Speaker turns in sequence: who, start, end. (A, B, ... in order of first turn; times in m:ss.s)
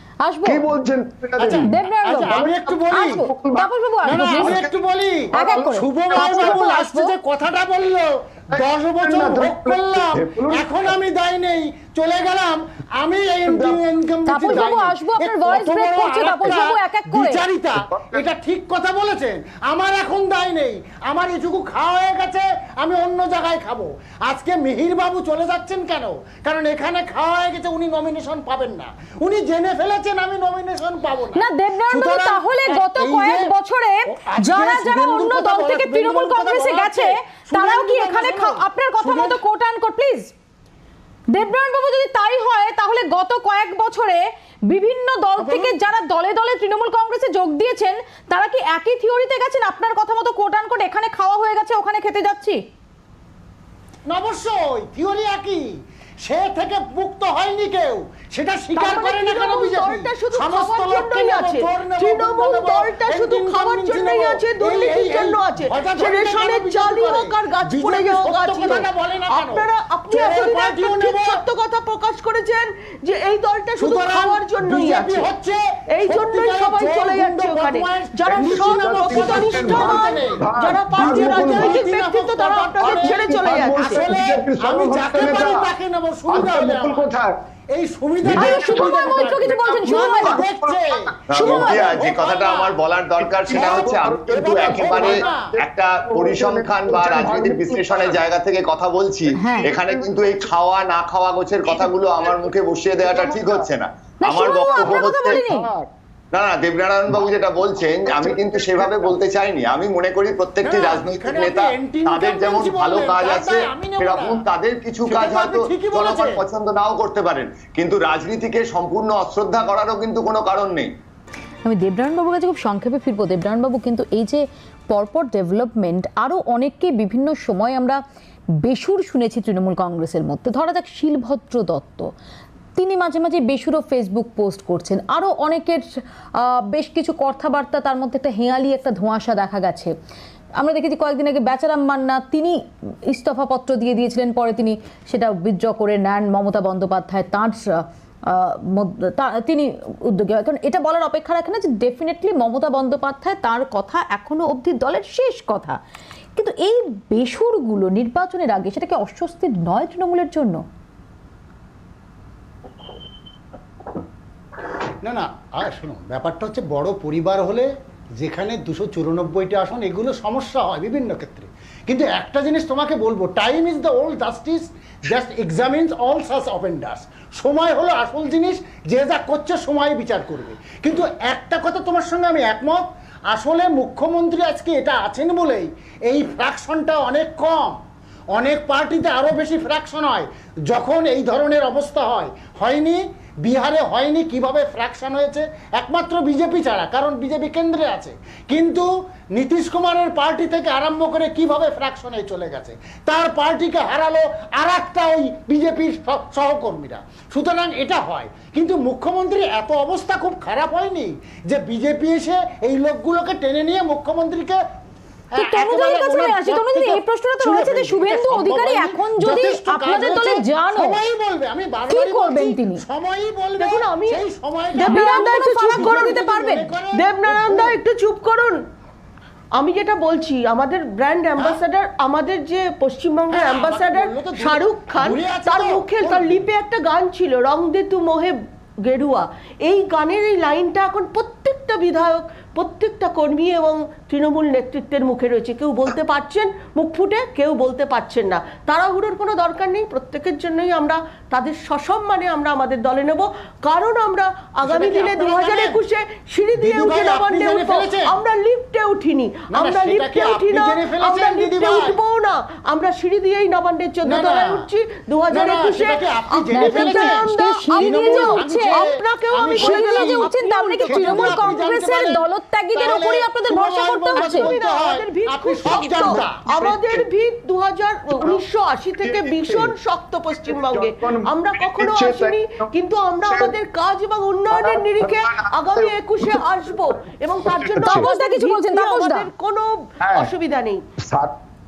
0:00.2-0:00.7 A
0:00.4-0:01.6 B
0:01.4-0:03.3 C
0:01.6-0:04.6 A
0:02.3-0:03.7 B
0:04.0-0:33.5 C
0:04.3-0:04.8 B
0:05.3-0:07.1 A
0:08.5-0:11.0 B
0:13.5-0:13.8 B
0:14.3-0:17.4 A
0:17.8-0:18.2 B
0:31.3-0:40.3 A
0:34.1-0:39.4 C
0:41.3-0:52.6 A
0:45.4-0:45.8 C
0:54.0-1:11.4 C
0:58.8-1:15.3 D
1:13.8-1:27.1 C
1:15.9-1:24.1 D
1:18.5-1:21.8 B
1:21.0-1:21.4 E
1:22.8-1:25.7 B
1:26.3-1:27.3 B
1:27.7-1:32.8 C
1:28.2-1:29.7 B
1:28.3-1:30.4 A
1:30.2-1:31.2 B
1:31.3-1:45.5 E
1:31.4-1:31.9 A
1:33.2-1:34.4 B
1:33.4-1:35.6 C
1:34.9-1:38.2 B
1:39.4-1:39.7 A
1:39.8-1:40.5 B
1:41.6-1:42.4 C
1:43.0-1:43.7 B
1:44.2-1:45.7 A
1:44.7-1:45.9 B
1:46.3-2:00.9 E
1:47.8-1:49.0 B
1:50.6-1:54.5 C
1:55.0-1:56.4 C
2:01.6-2:08.0 A
2:08.6-2:12.1 A
2:12.8-2:19.9 A
2:20.6-2:35.8 A
2:36.4-2:40.6 A
2:45.0-3:34.6 C
3:35.3-3:47.8 C
3:35.4-3:41.0 A
3:41.9-3:42.8 A
3:43.6-3:46.3 D
3:44.8-3:46.8 A
3:47.0-3:48.6 D
3:49.6-4:31.5 D
3:53.3-3:56.5 C
4:14.6-4:15.8 C
4:16.6-4:18.2 C
4:19.5-4:22.0 C
4:24.0-4:24.7 C
4:25.3-4:30.3 C
4:26.5-4:28.8 A
4:29.6-4:34.5 A
4:30.8-4:36.4 C
4:34.2-4:50.8 D
4:36.1-4:37.0 B
4:39.0-4:39.7 B
4:40.3-4:42.7 B
4:43.2-4:43.5 B
4:44.5-4:46.7 B
4:47.4-4:48.0 B
4:47.8-4:49.3 A
4:50.0-4:50.3 B
4:51.0-4:51.3 B